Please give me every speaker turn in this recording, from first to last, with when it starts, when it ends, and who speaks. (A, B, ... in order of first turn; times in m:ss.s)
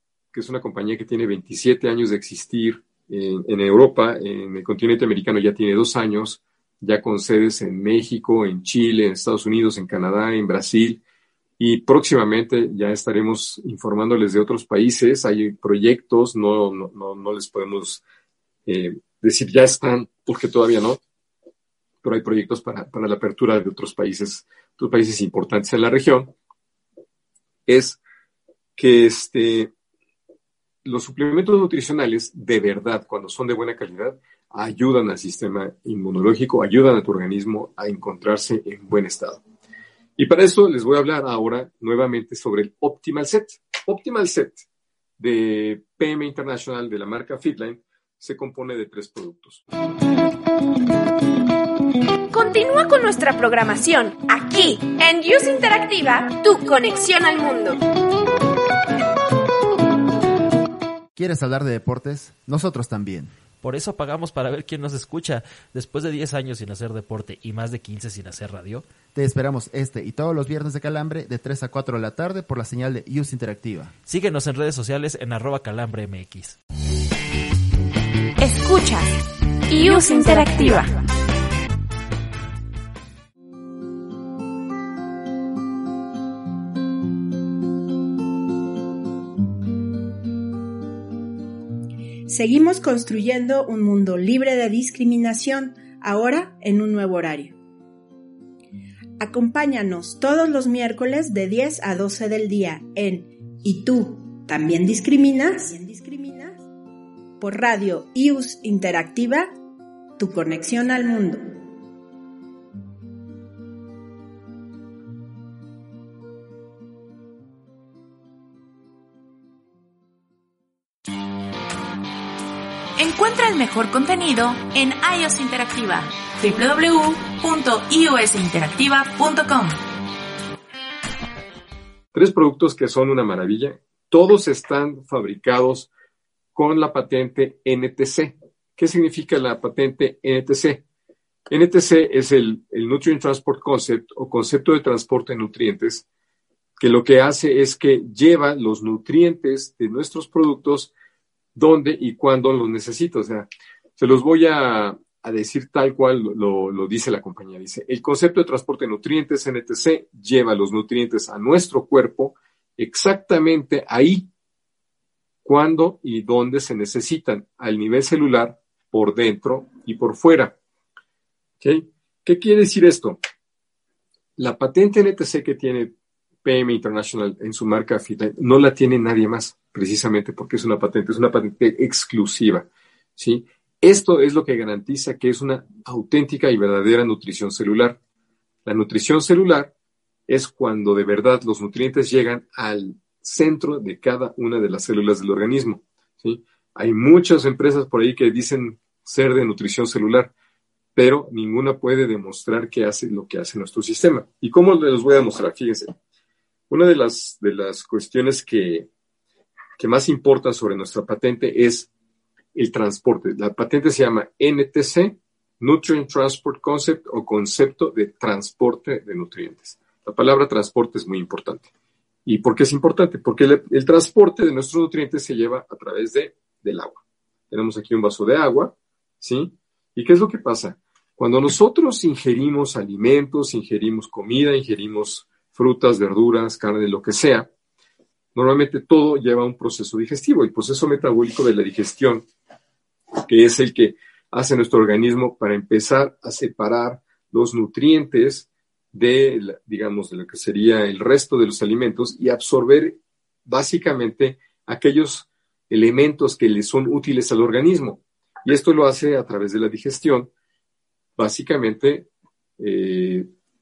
0:00.3-0:11.0 A
0:11.6-0:18.0 A
0:18.7-0:21.0 A
0:22.0-0:26.3 A
0:27.7-0:28.0 A
0:28.8-0:29.7 A
0:30.8-0:39.4 A
0:40.2-0:44.7 A
0:45.2-0:49.6 A
0:52.3-0:57.8 B
1:01.2-1:03.3 C
1:03.6-1:08.9 D
1:09.1-1:13.9 C
1:14.1-1:16.6 D
1:18.4-1:21.0 B
1:32.3-1:37.6 E
1:39.2-1:46.6 E
1:47.4-1:49.5 E
1:50.2-1:51.5 E
2:03.0-2:09.8 F
2:12.1-2:15.9 A
2:16.6-2:20.8 A
2:21.5-2:26.0 A
2:26.8-2:30.9 A
2:31.6-2:44.3 A
2:45.4-2:50.6 A
2:51.6-2:53.2 A
2:54.4-2:55.9 A
2:56.4-3:08.0 A
3:08.7-3:09.7 A
3:10.3-3:20.3 A
3:21.0-3:25.9 A
3:26.7-3:28.9 A
3:29.8-3:31.9 A
3:32.6-3:41.7 A
3:42.3-3:57.5 A
3:58.4-4:02.3 A
4:03.3-4:20.3 A
4:21.2-4:22.1 A
4:22.6-4:23.3 A